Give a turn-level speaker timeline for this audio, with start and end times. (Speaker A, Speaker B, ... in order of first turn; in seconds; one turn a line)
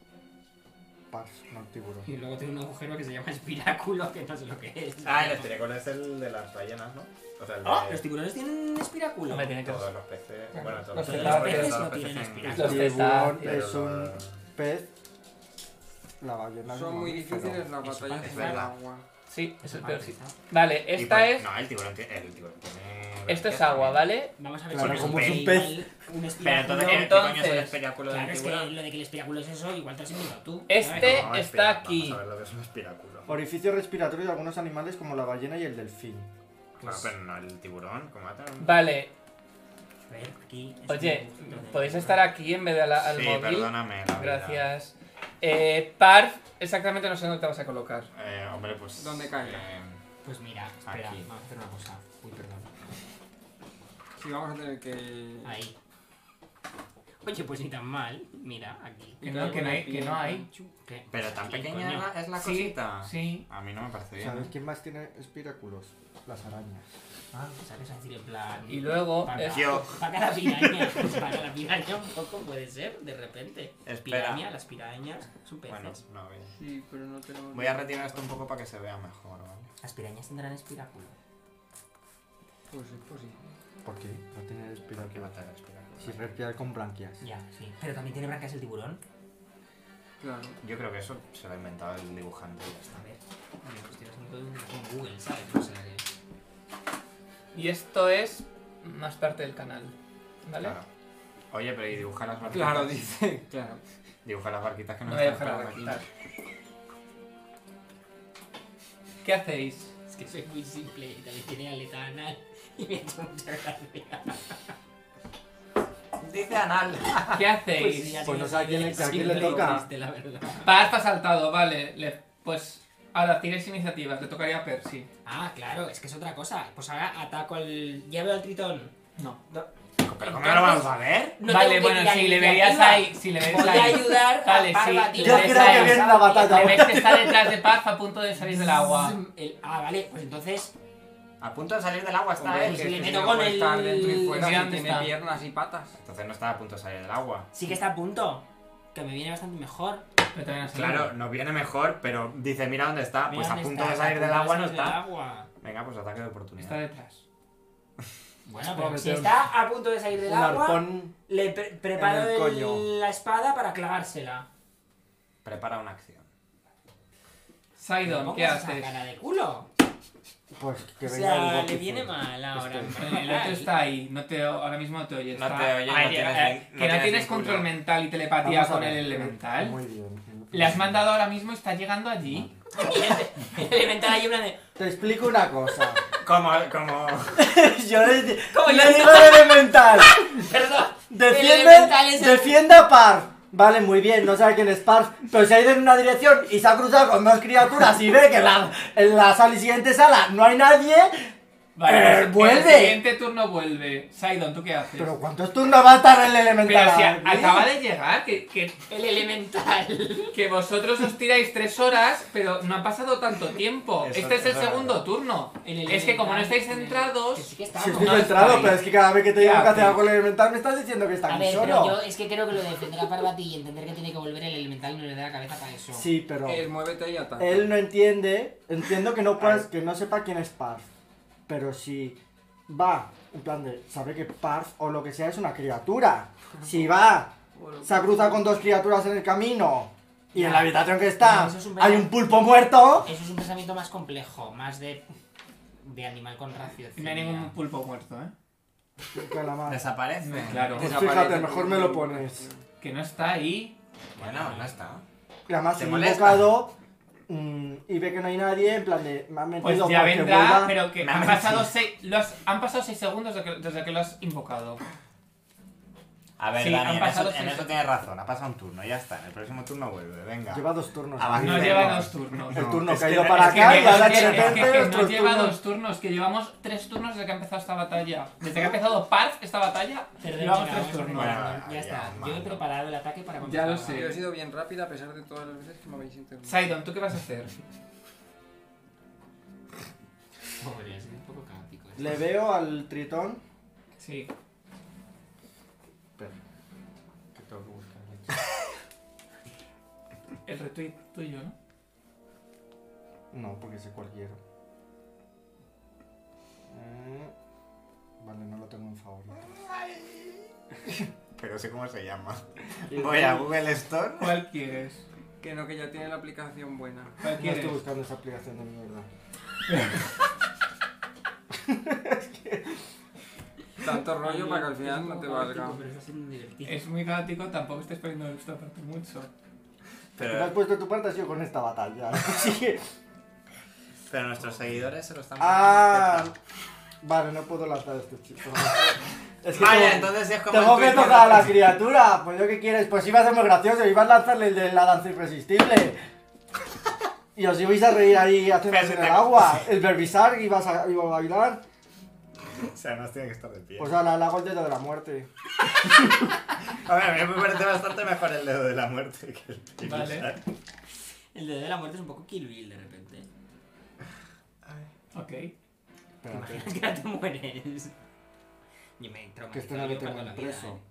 Speaker A: 1.1-2.1
Speaker B: 2.0-5.5
Speaker C: 5.0-8.0
Speaker B: 7.6-9.6
Speaker D: 9.3-9.9
Speaker C: 9.5-14.3
Speaker E: 10.6-11.6
Speaker D: 11.0-11.8
Speaker B: 11.0-13.1
Speaker A: 12.5-14.9
Speaker D: 12.5-13.4
Speaker A: 16.2-17.7
Speaker E: 16.7-19.1
Speaker B: 17.8-18.7
Speaker C: 18.2-18.7
Speaker D: 19.3-21.5
Speaker B: 19.6-20.4
Speaker C: 20.9-24.1
Speaker D: 23.3-24.3
Speaker B: 24.4-27.2
Speaker A: 24.7-25.9
Speaker C: 24.7-25.6
Speaker C: 26.4-28.7
Speaker D: 26.7-27.8
Speaker B: 28.1-31.3
Speaker D: 30.7-32.2
Speaker C: 30.9-33.3
Speaker A: 33.3-36.3
Speaker B: 36.8-37.1
Speaker C: 36.8-38.9
Speaker D: 38.6-39.1
Speaker B: 40.1-42.2
Speaker D: 40.9-48.1
Speaker C: 43.0-44.7
Speaker C: 48.1-50.0
Speaker E: 49.0-49.7
Speaker B: 50.2-52.7
Speaker C: 50.8-51.2
Speaker E: 54.2-55.5
Speaker B: 55.4-55.7
Speaker B: 57.2-59.8
Speaker D: 59.2-60.5
Speaker E: 59.2-60.7
Speaker B: 60.8-62.1
Speaker C: 61.1-64.5
Speaker D: 62.4-63.5
Speaker A: 64.2-66.9
Speaker B: 67.3-76.0
Speaker D: 68.7-69.8
Speaker C: 69.4-70.0
Speaker C: 73.8-74.4
Speaker C: 75.7-76.5
Speaker E: 76.5-78.3
Speaker C: 77.5-79.7
Speaker B: 79.8-81.1
Speaker E: 82.7-83.5
Speaker A: 83.8-85.3
Speaker C: 85.0-86.2
Speaker A: 86.0-87.2
Speaker B: 87.2-89.0
Speaker E: 90.2-90.6
Speaker C: 90.6-93.0
Speaker B: 92.9-96.0
Speaker D: 97.5-99.9
Speaker D: 100.4-100.8
Speaker C: 100.6-100.8
Speaker C: 101.5-103.1
Speaker E: 102.5-103.8
Speaker C: 104.2-106.0
Speaker D: 105.0-106.0
Speaker D: 109.2-109.9
Speaker B: 110.1-114.5
Speaker C: 116.2-117.5
Speaker D: 117.3-118.3
Speaker B: 117.7-120.8
Speaker A: 118.2-119.8
Speaker D: 120.6-125.1
Speaker B: 125.2-128.9
Speaker B: 129.5-137.0
Speaker C: 130.0-131.4
Speaker D: 131.4-139.2
Speaker A: 135.2-137.6
Speaker B: 138.4-140.7
Speaker C: 141.4-143.1
Speaker E: 142.4-146.0
Speaker B: 142.5-144.5
Speaker D: 144.2-145.1
Speaker C: 146.0-147.5
Speaker B: 147.5-150.1
Speaker D: 150.3-151.1
Speaker C: 150.7-155.0
Speaker B: 153.2-155.5
Speaker C: 155.6-156.8
Speaker D: 156.6-157.2
Speaker B: 158.4-164.5
Speaker A: 158.6-159.4
Speaker A: 160.2-161.1
Speaker A: 161.9-162.9
Speaker C: 165.4-166.3
Speaker D: 167.8-168.9
Speaker B: 168.1-169.7
Speaker A: 170.5-173.0
Speaker B: 171.0-173.7
Speaker D: 172.9-179.8
Speaker C: 175.3-177.7
Speaker A: 178.4-180.9
Speaker D: 180.5-182.5
Speaker B: 182.7-184.6
Speaker A: 184.8-186.0
Speaker C: 186.2-187.4
Speaker A: 187.4-190.4
Speaker B: 188.5-192.6
Speaker A: 191.1-201.3
Speaker D: 201.8-205.1
Speaker A: 201.8-203.0
Speaker A: 204.9-207.7
Speaker D: 206.6-208.8
Speaker B: 208.9-210.4
Speaker D: 210.3-220.1
Speaker C: 214.0-215.0
Speaker B: 215.6-218.8
Speaker A: 217.8-222.0
Speaker B: 221.3-226.1
Speaker A: 225.9-226.6
Speaker E: 226.4-227.8
Speaker A: 227.4-230.9
Speaker A: 231.5-243.1
Speaker E: 237.6-238.4
Speaker B: 240.3-242.2
Speaker B: 243.0-245.1
Speaker B: 245.8-247.6
Speaker D: 246.9-248.3
Speaker A: 249.1-249.9
Speaker C: 249.7-250.9
Speaker D: 250.2-251.1
Speaker E: 250.6-252.6
Speaker A: 250.7-252.4
Speaker D: 252.8-253.7
Speaker B: 254.2-254.8
Speaker C: 254.2-255.0
Speaker A: 255.5-256.8
Speaker C: 255.8-256.6
Speaker A: 257.3-260.9
Speaker D: 259.6-264.8
Speaker C: 261.0-261.7
Speaker C: 266.4-274.8
Speaker D: 266.6-267.7
Speaker A: 270.5-275.6
Speaker D: 271.4-281.5
Speaker B: 280.2-284.2
Speaker C: 281.1-282.6
Speaker D: 283.4-284.2
Speaker E: 283.9-286.7
Speaker D: 286.4-287.6
Speaker B: 290.6-292.2
Speaker A: 291.9-293.4
Speaker D: 294.0-294.3
Speaker A: 297.3-298.4
Speaker D: 300.4-301.6
Speaker A: 303.3-304.4
Speaker A: 306.7-307.3
Speaker A: 308.2-309.4
Speaker C: 311.4-314.4
Speaker A: 312.9-313.6
Speaker D: 314.2-315.1
Speaker E: 315.4-317.2
Speaker D: 317.2-317.8
Speaker A: 317.3-319.1
Speaker A: 321.5-322.8
Speaker E: 323.8-325.8
Speaker B: 324.2-326.9
Speaker D: 326.6-329.3
Speaker C: 330.2-330.5
Speaker A: 330.2-332.8
Speaker C: 334.1-336.3
Speaker A: 335.4-336.3
Speaker A: 337.0-346.0
Speaker C: 339.5-341.6
Speaker A: 347.4-351.6
Speaker C: 348.6-349.6
Speaker C: 352.4-353.9
Speaker A: 353.8-355.3
Speaker C: 355.9-360.4
Speaker D: 359.8-360.3
Speaker B: 361.3-363.3
Speaker D: 365.1-365.5
Speaker A: 366.2-366.8
Speaker B: 366.3-367.9
Speaker B: 369.0-370.8
Speaker A: 369.5-370.8